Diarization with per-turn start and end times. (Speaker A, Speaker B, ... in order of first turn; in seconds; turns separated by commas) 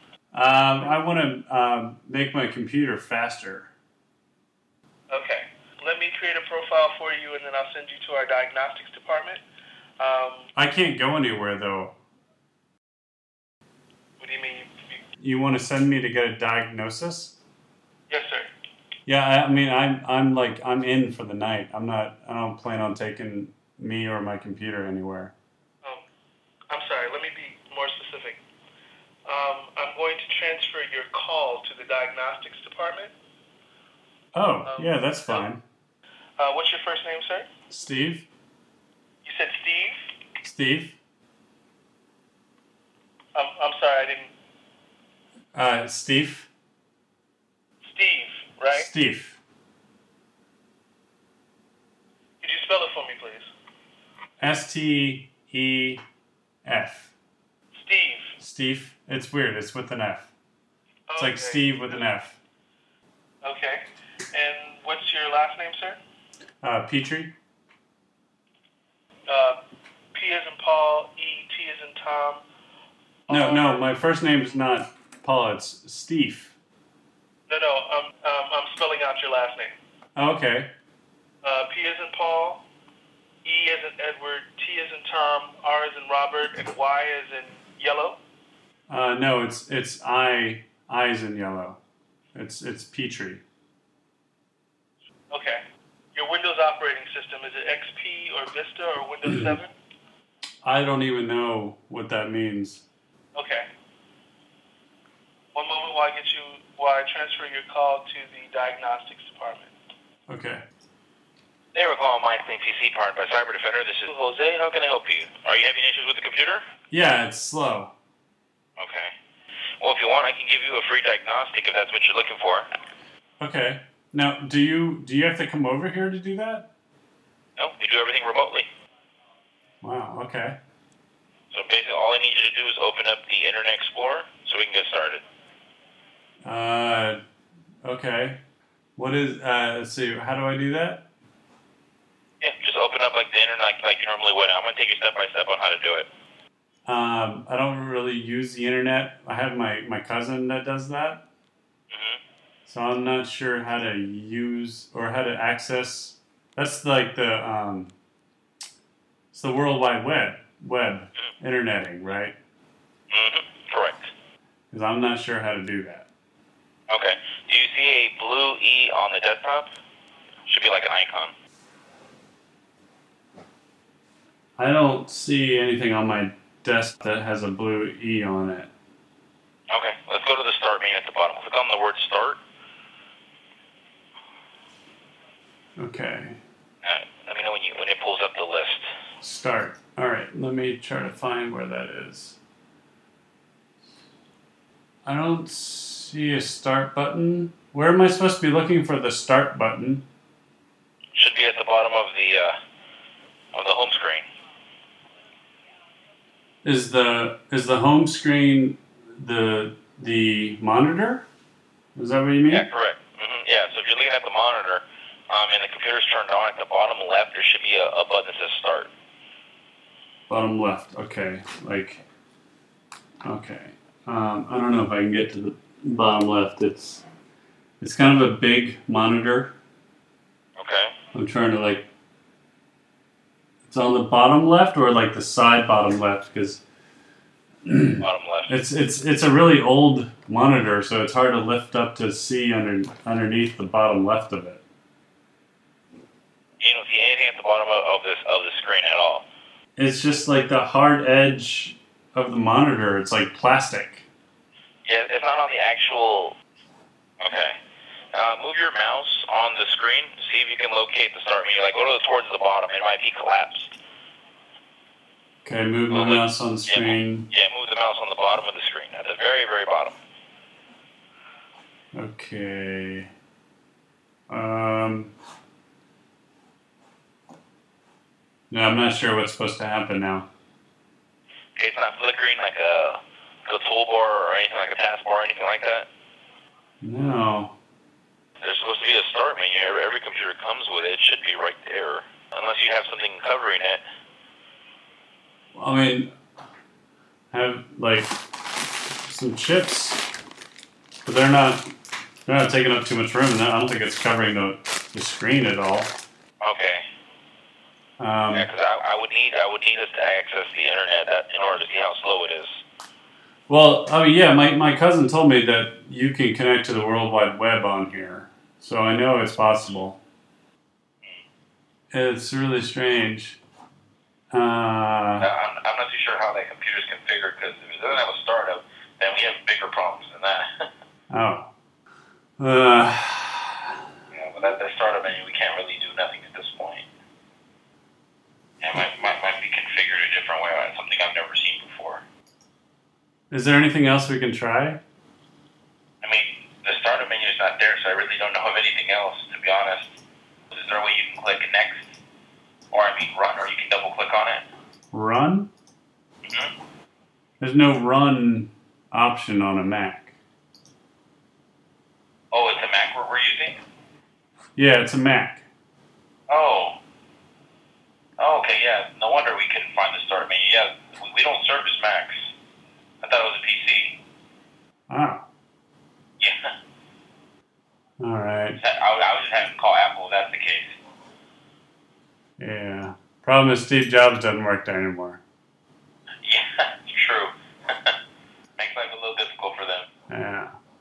Speaker A: 0.3-3.7, Speaker B: 5.1-9.4, Speaker B: 10.0-10.5, Speaker A: 10.6-11.9, Speaker B: 14.2-15.0, Speaker A: 15.2-17.4, Speaker B: 18.1-18.5, Speaker A: 19.1-25.3, Speaker B: 26.7-28.4, Speaker B: 29.3-33.1, Speaker A: 34.3-35.6, Speaker B: 34.7-35.5, Speaker B: 36.4-37.5, Speaker A: 37.7-38.3, Speaker B: 39.2-40.0, Speaker A: 40.4-41.0, Speaker B: 43.4-44.3, Speaker A: 45.5-46.5, Speaker B: 47.8-48.9, Speaker A: 48.7-49.4, Speaker B: 52.4-53.5, Speaker A: 54.4-56.0, Speaker A: 56.6-57.1, Speaker B: 57.7-58.4, Speaker A: 58.4-60.3, Speaker B: 61.1-61.6, Speaker A: 61.2-62.4, Speaker B: 63.4-66.0, Speaker A: 66.6-67.3, Speaker B: 69.3-69.6, Speaker B: 70.1-72.4, Speaker B: 73.3-73.8, Speaker A: 73.3-76.6, Speaker B: 77.5-79.8, Speaker A: 80.2-80.7, Speaker B: 81.4-82.7, Speaker B: 83.4-88.2, Speaker A: 88.9-91.8, Speaker A: 92.3-93.4, Speaker B: 95.3-95.6, Speaker B: 96.2-99.7, Speaker A: 99.2-99.5, Speaker A: 100.6-102.8, Speaker B: 103.3-103.7, Speaker B: 105.5-109.7, Speaker A: 110.3-110.6, Speaker C: 111.8-116.6, Speaker A: 116.9-117.9, Speaker C: 118.8-119.1, Speaker C: 119.8-122.7, Speaker A: 123.4-126.7, Speaker C: 127.6-128.7, Speaker A: 129.8-130.6, Speaker C: 131.5-135.2, Speaker A: 136.4-137.2, Speaker A: 137.8-138.4, Speaker A: 139.0-141.0, Speaker C: 142.4-146.1, Speaker A: 146.9-151.2, Speaker C: 151.9-152.2, Speaker A: 152.7-157.9, Speaker A: 159.3-162.4, Speaker C: 163.1-164.1, Speaker A: 164.7-166.1, Speaker C: 166.9-169.7, Speaker C: 170.5-171.3, Speaker A: 174.6-178.7, Speaker C: 179.7-182.4, Speaker A: 185.8-186.4, Speaker C: 186.8-188.9, Speaker A: 189.2-192.4, Speaker A: 195.1-200.0, Speaker C: 201.2-202.6, Speaker C: 203.5-204.3, Speaker A: 206.6-211.3, Speaker A: 212.0-212.7, Speaker C: 212.5-218.9, Speaker A: 220.3-222.0, Speaker A: 223.2-227.0, Speaker A: 227.8-229.5, Speaker C: 230.6-230.9, Speaker A: 231.1-231.9, Speaker A: 233.7-236.6, Speaker A: 237.7-244.6, Speaker C: 238.0-238.5, Speaker C: 246.6-249.2, Speaker A: 249.8-254.1, Speaker C: 254.9-256.4, Speaker C: 257.2-257.6, Speaker C: 258.1-263.8, Speaker A: 265.4-267.3, Speaker C: 265.9-269.9, Speaker A: 271.9-273.1, Speaker A: 274.3-275.1, Speaker A: 278.5-280.3, Speaker C: 281.6-285.9, Speaker A: 286.8-287.5, Speaker C: 288.4-293.8, Speaker A: 295.6-296.1, Speaker A: 297.3-298.2, Speaker A: 299.0-300.0, Speaker A: 301.1-301.6, Speaker A: 302.3-306.0, Speaker C: 306.4-306.8, Speaker A: 308.0-308.5, Speaker C: 308.3-312.6, Speaker A: 313.5-320.0, Speaker A: 321.9-323.4, Speaker A: 324.3-325.3, Speaker C: 325.2-330.5, Speaker A: 331.1-331.5, Speaker A: 332.4-333.7, Speaker C: 334.1-336.9, Speaker C: 338.6-342.0, Speaker A: 343.3-344.8, Speaker C: 346.0-349.9, Speaker C: 350.5-351.9, Speaker C: 352.7-354.4, Speaker A: 354.9-355.5, Speaker A: 357.4-360.1, Speaker C: 362.3-363.6, Speaker A: 364.6-365.4, Speaker C: 366.3-366.8, Speaker C: 368.2-372.2, Speaker C: 373.0-374.0, Speaker A: 374.9-375.2, Speaker A: 378.0-378.6, Speaker C: 378.6-380.8, Speaker A: 382.4-385.2, Speaker C: 386.2-387.9, Speaker C: 388.6-389.9, Speaker A: 390.1-390.5